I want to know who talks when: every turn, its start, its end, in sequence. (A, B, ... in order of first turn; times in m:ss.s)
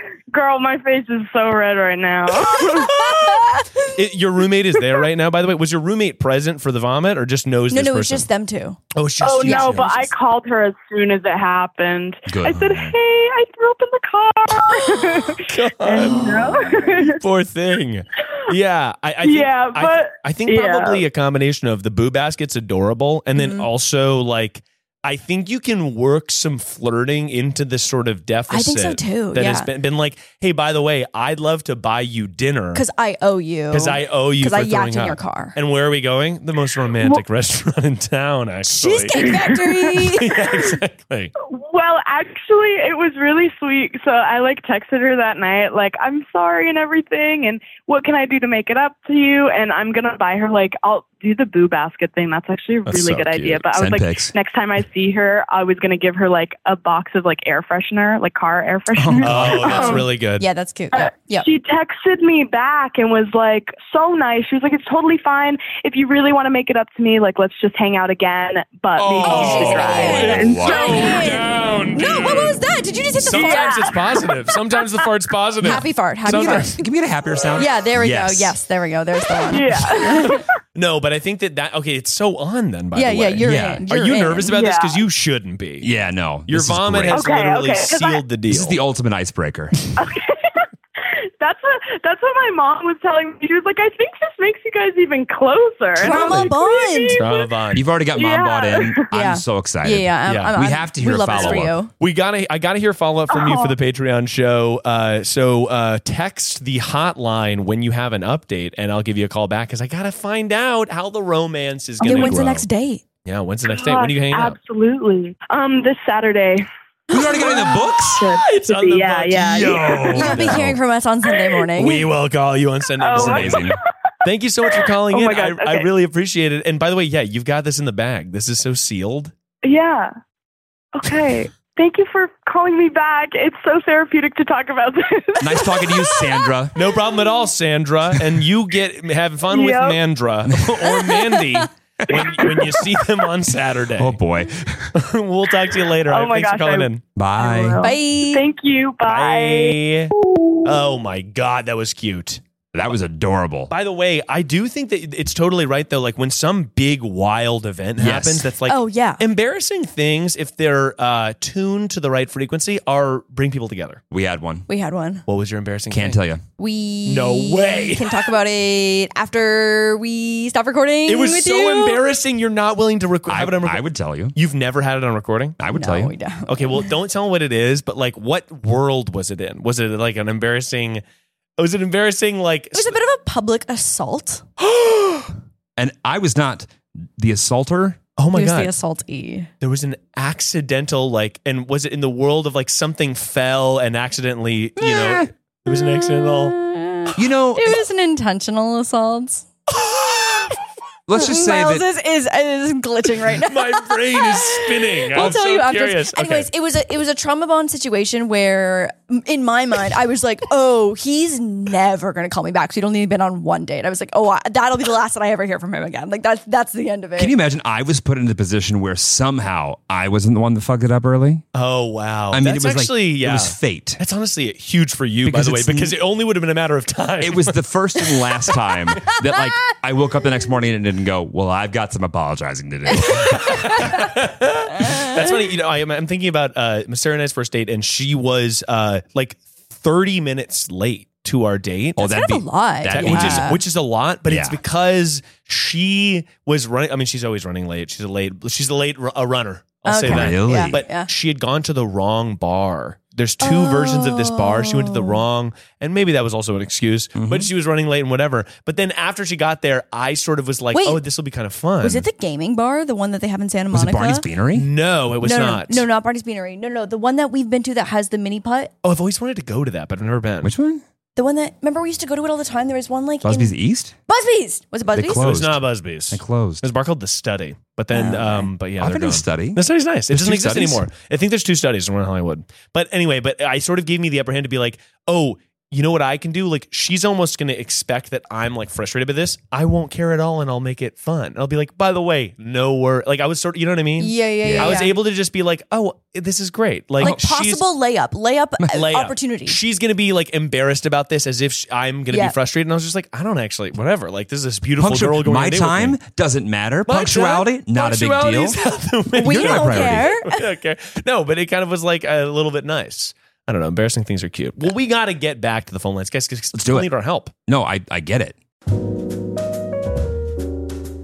0:00.3-0:03.0 A
0:02.6-0:03.1 B
0:02.9-0:03.7 C
0:03.9-0:08.2 B
0:07.7-0:08.8 C
0:08.9-0:10.1 B
0:09.2-0:17.2 A
0:09.4-0:09.8 C
0:12.3-0:13.0 D
0:15.4-0:32.8 B
0:16.0-0:16.6 C
0:19.2-0:21.0 A
0:23.4-0:23.7 C
0:28.5-0:29.7 C
0:32.7-0:35.6 C
0:33.7-0:41.3 B
0:38.6-0:40.4 C
0:41.4-1:00.0 A
0:52.9-0:53.6 B
0:53.7-0:54.3 D
0:58.9-0:59.9 D
0:59.2-1:00.4 B
0:59.7-1:01.4 C
1:00.9-1:11.3 A
1:09.0-1:12.6 B
1:09.2-1:13.9 C
1:10.0-1:11.0 D
1:13.2-1:16.7 B
1:13.3-1:14.3 A
1:15.6-1:16.8 C
1:16.3-1:18.5 D
1:17.6-1:20.4 C
1:19.5-1:20.4 A
1:20.7-1:25.9 B
1:22.9-1:24.5 C
1:23.4-1:23.8 D
1:24.5-1:25.0 A
1:25.8-1:27.2 D
1:26.5-1:28.8 B
1:27.1-1:28.2 A
1:28.5-1:29.7 D
1:30.0-1:37.5 A
1:36.0-1:37.2 C
1:37.2-1:37.8 B
1:37.7-1:41.8 D
1:38.1-1:39.0 A
1:39.1-1:41.9 C
1:40.3-1:40.5 B
1:41.3-1:52.6 B
1:43.3-1:43.7 A
1:52.0-1:53.0 C
1:52.0-1:52.3 A
1:53.2-1:54.6 B
1:53.7-2:00.2 A
1:57.1-1:58.3 D
1:58.4-2:00.6 B
1:59.5-2:00.8 D
2:00.1-2:02.0 C
2:01.8-2:03.6 B
2:03.0-2:03.8 A
2:03.1-2:03.8 D
2:04.2-2:09.3 B
2:04.7-2:05.9 A
2:09.6-2:10.1 A
2:10.9-2:17.3 A
2:15.4-2:16.7 D
2:16.7-2:24.2 B
2:19.5-2:20.0 A
2:20.5-2:20.9 D
2:21.3-2:21.6 C
2:24.0-2:24.9 D
2:24.9-2:27.0 B
2:26.1-2:29.8 A
2:27.2-2:27.8 D
2:27.8-2:28.4 C
2:29.0-2:32.4 B
2:32.7-2:33.7 D
2:33.7-2:44.0 B
2:38.0-2:38.5 D
2:38.7-2:39.2 C
2:44.1-2:44.6 D
2:44.7-2:45.2 C
2:45.3-2:46.2 B
2:45.9-2:46.4 D
2:46.6-2:52.0 C
2:47.0-2:48.1 B
2:51.1-2:55.6 B
2:53.3-2:54.4 D
2:55.6-2:56.1 D
2:55.7-2:56.9 C
2:56.5-3:01.0 B
3:01.6-3:03.0 B
3:02.7-3:04.4 C
3:04.6-3:05.3 B
3:05.8-3:08.0 D
3:08.2-3:08.7 B
3:08.3-3:09.5 C
3:09.6-3:16.6 B
3:14.8-3:15.3 D
3:15.7-3:19.4 C
3:17.2-3:17.8 D
3:19.7-3:20.6 B
3:21.1-3:21.8 D
3:21.1-3:37.3 C
3:23.3-3:26.5 B
3:37.2-3:41.4 D
3:41.5-3:47.6 B
3:42.3-3:44.0 D
3:45.2-3:46.0 D
3:47.2-3:53.8 D
3:53.0-4:02.1 B
4:02.0-4:03.6 D
4:02.0-4:03.6 C
4:02.9-4:22.1 B
4:04.3-4:04.6 D
4:09.8-4:11.1 C
4:10.0-4:10.8 D
4:13.4-4:15.2 C
4:17.2-4:17.5 D
4:20.7-4:21.0 C
4:21.8-4:24.2 C
4:23.7-4:24.7 D
4:24.5-4:25.8 B
4:25.2-4:28.7 C
4:28.8-4:30.5 B
4:30.4-4:30.8 D
4:31.2-4:33.5 C
4:33.2-4:33.9 D
4:34.1-4:35.3 C
4:34.9-4:36.6 D
4:35.1-4:57.6 B
4:37.9-4:38.5 C
4:38.8-4:40.8 D
4:54.0-4:54.9 C
4:54.4-4:54.8 D
4:57.0-4:59.6 C
4:58.7-5:06.0 B
5:04.8-5:08.6 D
5:06.9-5:17.3 B
5:09.2-5:10.4 C
5:09.2-5:10.1 D
5:16.5-5:16.9 D
5:17.4-5:18.4 D